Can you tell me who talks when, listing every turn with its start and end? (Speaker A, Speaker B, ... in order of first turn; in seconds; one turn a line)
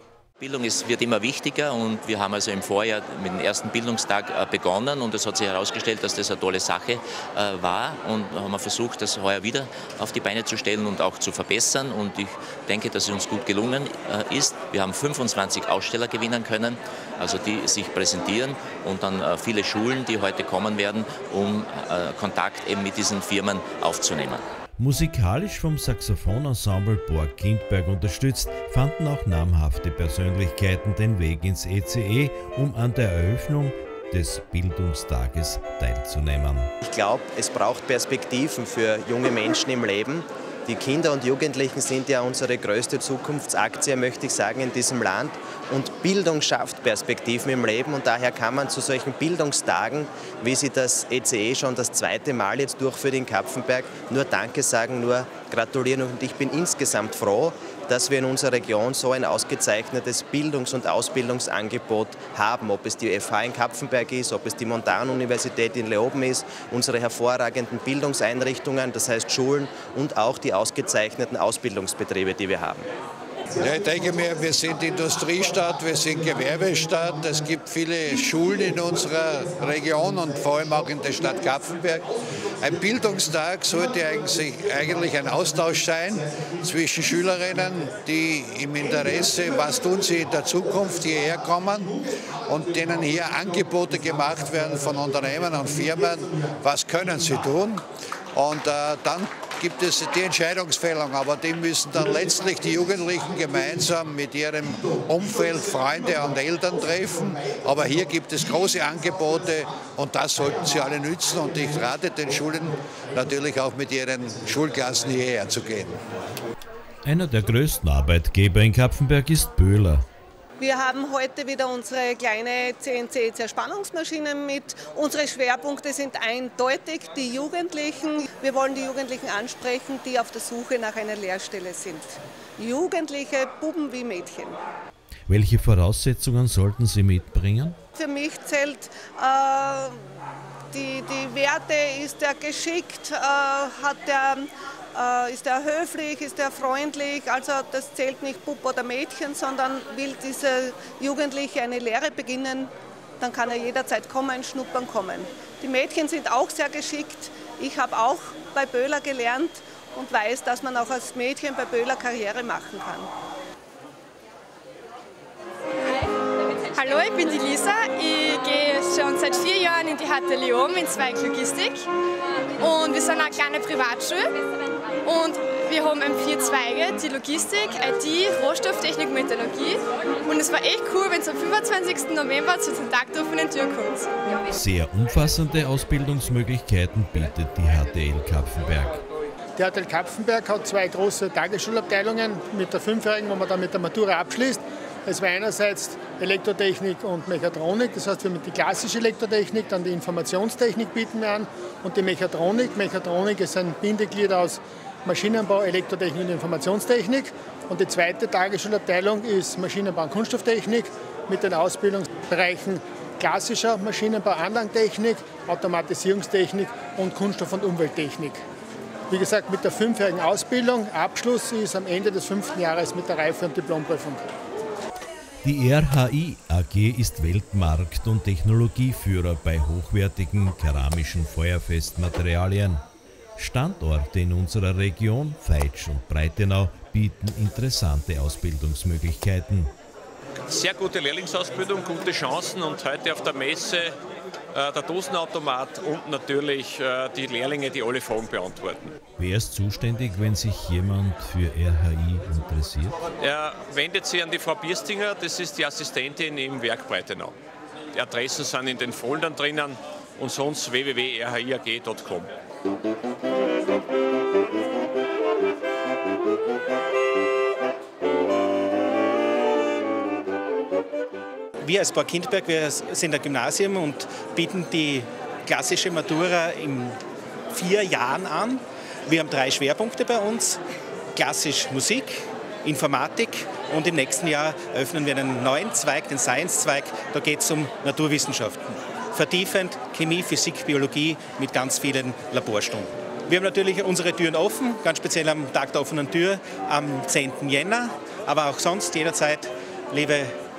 Speaker A: 0.5-24.4
Speaker B: 24.8-36.7
Speaker C: 36.8-72.9
Speaker D: 73.6-97.8
Speaker D: 98.3-116.0
Speaker B: 117.0-120.0
Speaker E: 120.6-134.6
Speaker B: 135.3-137.8
Speaker E: 138.0-140.1
Speaker E: 140.7-163.1
Speaker F: 166.7-171.9
Speaker F: 172.6-174.3
Speaker F: 175.1-184.1
Speaker B: 184.5-189.0
Speaker G: 189.6-218.4
Speaker G: 219.1-224.3
Speaker B: 225.4-232.8
Speaker B: 233.4-239.7
Speaker H: 240.5-244.0
Speaker H: 244.5-248.9
Speaker B: 249.2-253.0
Speaker H: 253.2-257.4
Speaker H: 257.9-262.3
Speaker I: 271.7-277.0
Speaker I: 277.5-280.6
Speaker I: 281.2-300.3